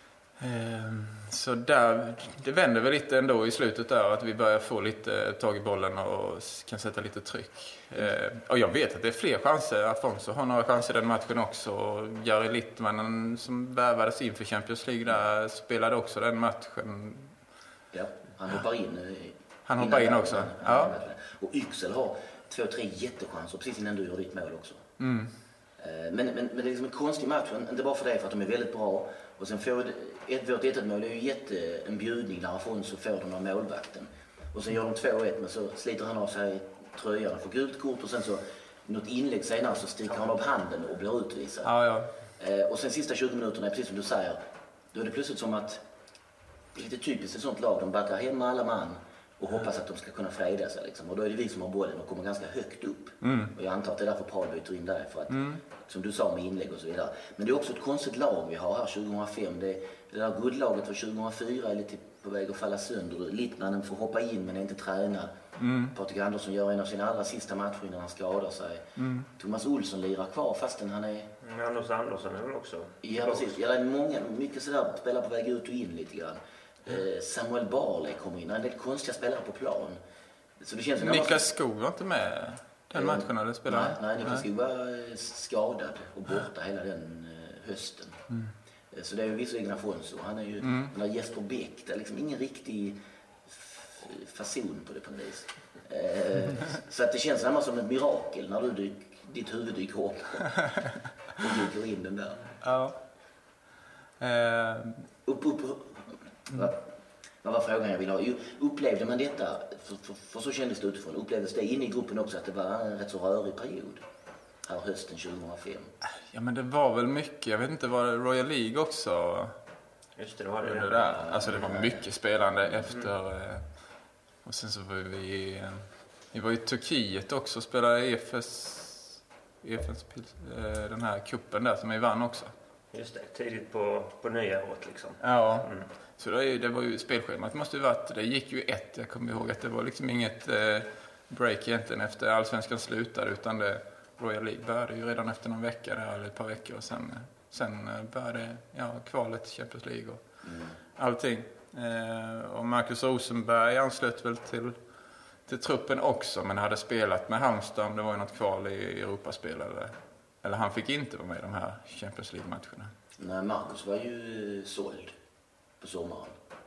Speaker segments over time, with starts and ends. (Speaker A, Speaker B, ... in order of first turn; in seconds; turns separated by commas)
Speaker A: 0.4-17.3, Speaker B: 17.9-24.8, Speaker A: 19.6-20.9, Speaker A: 25.0-25.3, Speaker B: 25.8-41.7, Speaker A: 41.6-42.1, Speaker B: 42.4-44.4, Speaker B: 44.9-45.8, Speaker B: 46.7-65.3, Speaker A: 53.2-53.5, Speaker A: 55.3-55.6, Speaker A: 65.6-65.9, Speaker B: 65.9-71.3, Speaker A: 69.0-69.3, Speaker C: 71.4-73.5, Speaker B: 73.0-80.0, Speaker B: 80.6-81.5, Speaker A: 81.0-84.4, Speaker B: 82.9-88.2, Speaker B: 88.9-100.6, Speaker A: 90.6-90.9, Speaker B: 101.3-102.6, Speaker A: 102.6-103.0, Speaker A: 104.2-105.1, Speaker B: 105.2-106.8, Speaker B: 107.4-114.0, Speaker B: 114.6-115.9, Speaker A: 116.3-119.6, Speaker C: 120.2-121.4, Speaker A: 120.6-123.7, Speaker B: 121.1-122.0, Speaker A: 124.4-132.5, Speaker C: 132.9-135.8, Speaker A: 135.2-150.2, Speaker B: 150.4-150.7, Speaker A: 150.9-154.8, Speaker A: 155.5-162.9, Speaker B: 163.2-165.2, Speaker B: 165.8-166.3